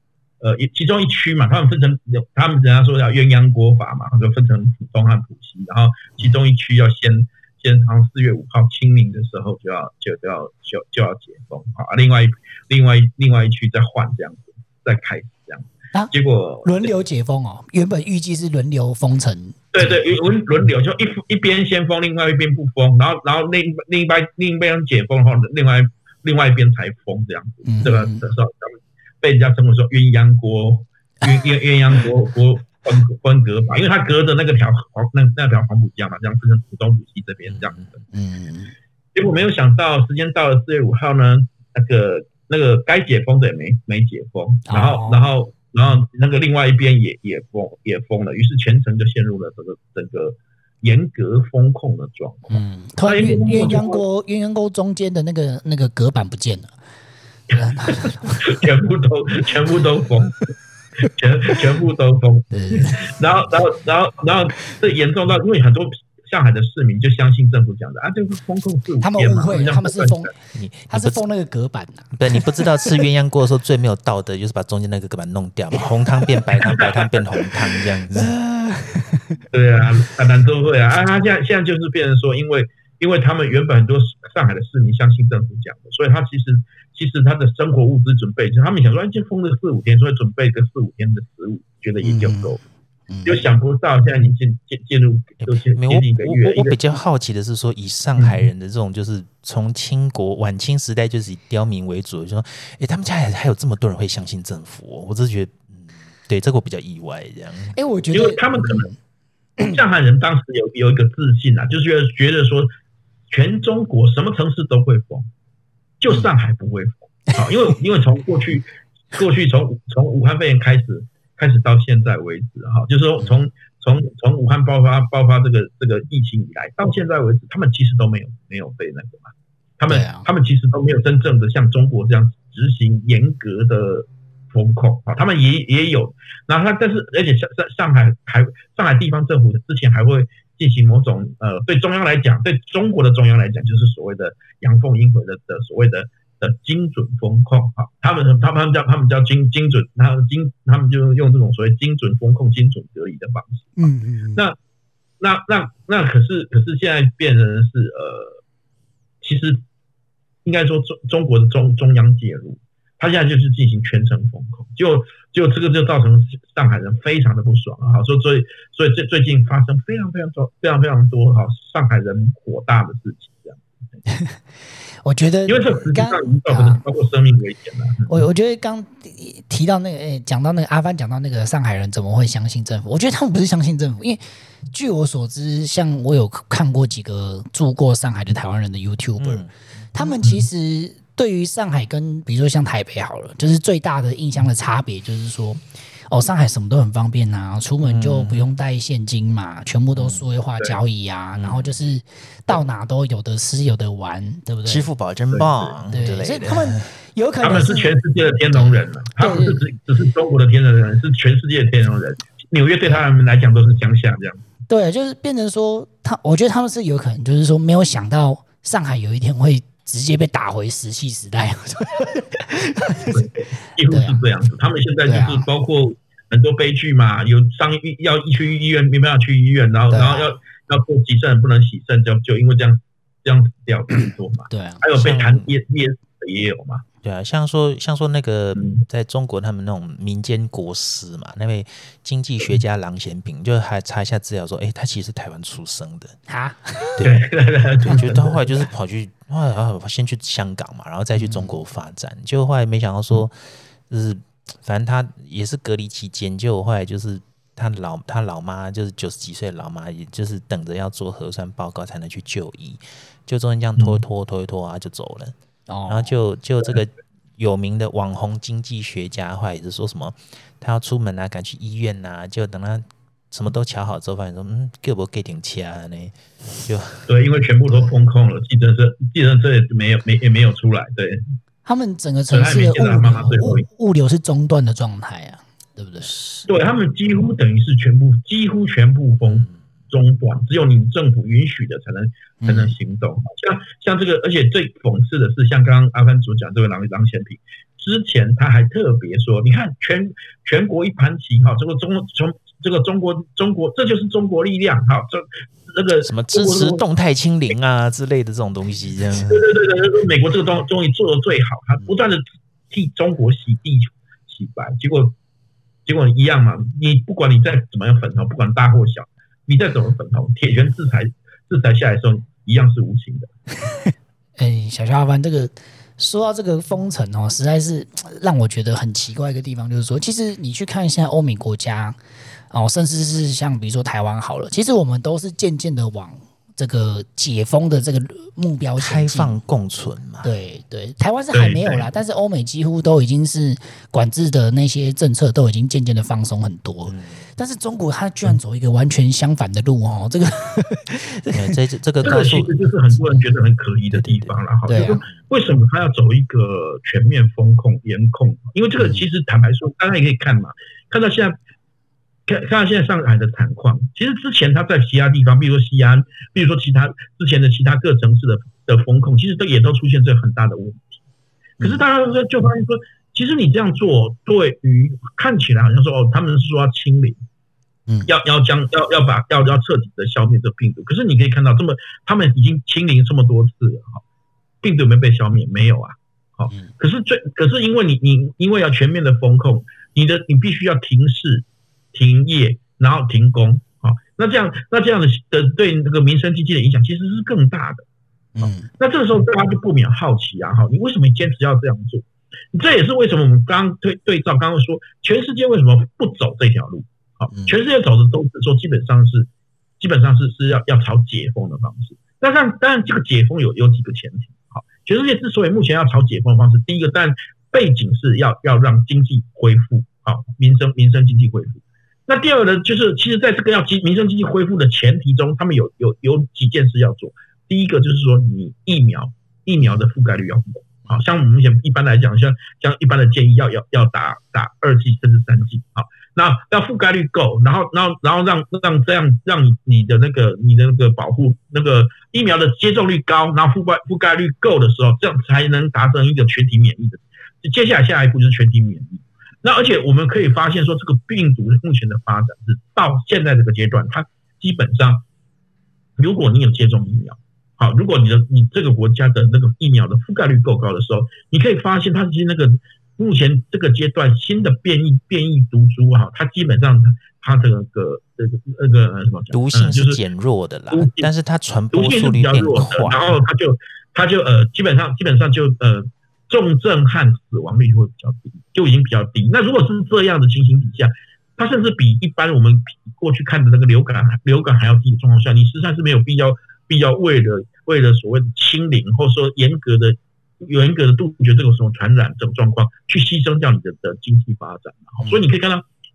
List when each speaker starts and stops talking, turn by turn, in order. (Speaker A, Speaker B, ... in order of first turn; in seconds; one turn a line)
Speaker A: 0.4-16.9
Speaker B: 16.6-19.9
Speaker A: 19.7-37.9
Speaker B: 27.6-28.2
Speaker C: 37.5-37.9
Speaker B: 38.1-38.7
Speaker A: 39.1-54.0
Speaker B: 44.7-45.2
Speaker B: 52.5-56.7
Speaker A: 57.5-70.3
Speaker B: 57.5-58.4
Speaker B: 62.5-63.1
Speaker B: 69.0-70.3
Speaker C: 70.5-71.2
Speaker B: 70.9-73.0
Speaker C: 72.1-78.3
Speaker B: 78.1-79.4
Speaker A: 79.5-92.6
Speaker B: 92.0-93.4
Speaker A: 93.2-96.8
Speaker C: 95.4-107.7
Speaker B: 107.7-108.9
Speaker A: 108.1-108.9
Speaker A: 109.6-112.7
Speaker A: 113.3-115.3
Speaker A: 116.0-153.8
Speaker B: 129.9-130.3
Speaker B: 153.8-154.4
Speaker A: 155.2-158.4
Speaker A: 159.2-159.6
Speaker A: 160.4-173.6
Speaker B: 174.1-174.4
Speaker B: 175.0-176.8
Speaker A: 175.4-178.2
Speaker B: 178.1-204.9
Speaker C: 189.2-189.5
Speaker C: 197.8-198.4
Speaker C: 199.9-200.2
Speaker C: 201.3-201.7
Speaker C: 204.7-206.9
Speaker A: 205.3-205.8
Speaker B: 205.9-207.9
Speaker A: 207.4-214.4
Speaker B: 208.5-209.6
Speaker B: 214.7-223.2
Speaker A: 223.1-236.8
Speaker B: 223.9-224.2
Speaker B: 225.1-225.5
Speaker B: 229.9-230.3
Speaker B: 234.0-234.8
Speaker C: 234.9-235.5
Speaker C: 237.0-246.2
Speaker A: 238.6-238.8
Speaker B: 246.3-247.0
Speaker C: 247.0-247.3
Speaker A: 247.0-248.7
Speaker C: 247.8-265.3
Speaker B: 265.7-266.1
Speaker C: 265.9-277.1
Speaker A: 277.1-281.2
Speaker B: 281.6-286.1
Speaker A: 282.3-283.6
Speaker A: 286.5-306.8
Speaker B: 292.4-292.8
Speaker C: 306.0-309.5
Speaker A: 309.2-315.1
Speaker A: 315.9-323.3
Speaker B: 324.4-332.0
Speaker B: 332.5-339.4
Speaker C: 338.8-340.3
Speaker B: 340.2-351.5
Speaker A: 341.3-341.8
Speaker C: 346.9-347.2
Speaker C: 351.3-352.5
Speaker A: 352.0-361.4
Speaker C: 353.9-354.4
Speaker B: 354.7-355.0
Speaker B: 358.8-359.1
Speaker A: 362.3-371.0
Speaker A: 371.6-377.2
Speaker A: 378.1-384.0
Speaker A: 384.6-397.8
Speaker B: 398.4-398.7
Speaker A: 398.4-455.0
Speaker A: 456.0-470.0
Speaker C: 469.3-473.1
Speaker A: 470.7-471.1
Speaker A: 471.7-495.6